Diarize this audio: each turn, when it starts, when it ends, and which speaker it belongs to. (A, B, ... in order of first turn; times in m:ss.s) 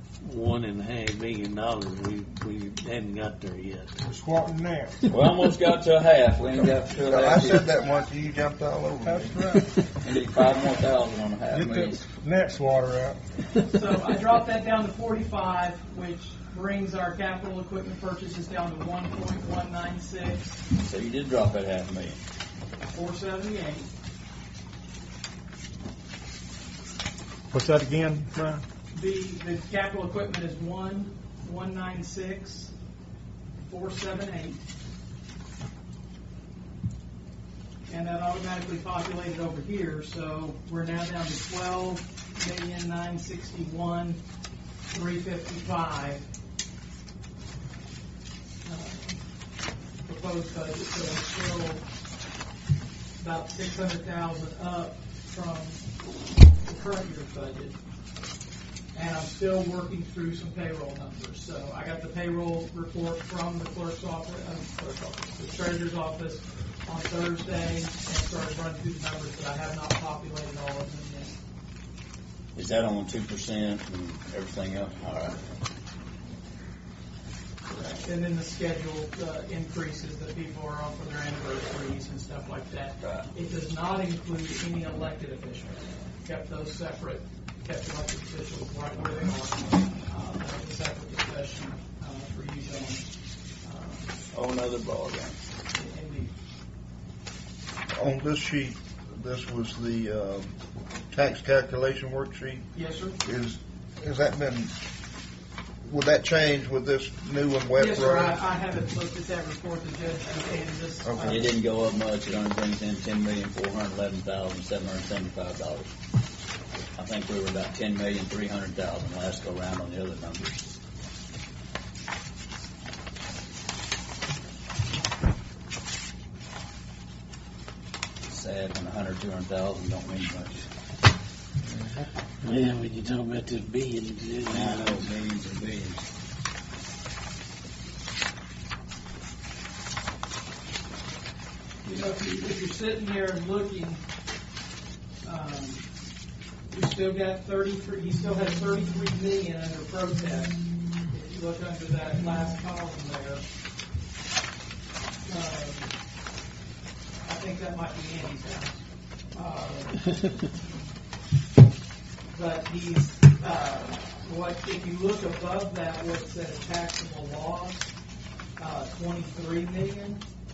0:00.2-0:03.9 A
0:04.0-0:05.1 B
0:05.1-0:07.7 C
0:07.1-0:09.3 D
0:09.0-0:09.8 B
0:10.0-0:12.0 C
0:11.5-0:13.2 B
0:13.5-0:20.6 E
0:20.8-0:22.2 C
0:22.9-0:23.9 E
0:27.5-0:28.6 B
0:28.9-0:32.7 E
0:33.6-0:34.6 E
0:37.9-0:44.2 E
0:44.9-0:46.2 E
0:48.6-0:49.2 E
0:50.0-0:51.8 E
0:53.2-0:55.8 E
0:56.6-0:57.8 E
0:58.9-1:11.3 E
1:12.6-1:15.4 C
1:17.7-1:33.1 E
1:23.0-1:23.3 C
1:33.6-1:34.1 E
1:34.3-1:35.4 C
1:35.7-1:36.3 E
1:37.9-1:40.5 D
1:41.1-1:42.7 D
1:42.7-1:43.2 E
1:43.2-1:44.7 D
1:45.8-1:48.4 D
1:47.7-1:51.5 E
1:51.0-1:51.4 D
1:51.2-1:55.9 C
1:56.9-2:00.6 C
2:08.3-2:10.7 C
2:12.4-2:15.1 A
2:14.5-2:16.0 C
2:21.8-2:24.0 E
2:25.2-2:25.9 E
2:26.7-2:33.4 E
2:35.2-2:35.9 E
2:37.2-2:40.3 E
2:42.3-2:47.9 E
2:48.6-2:50.2 E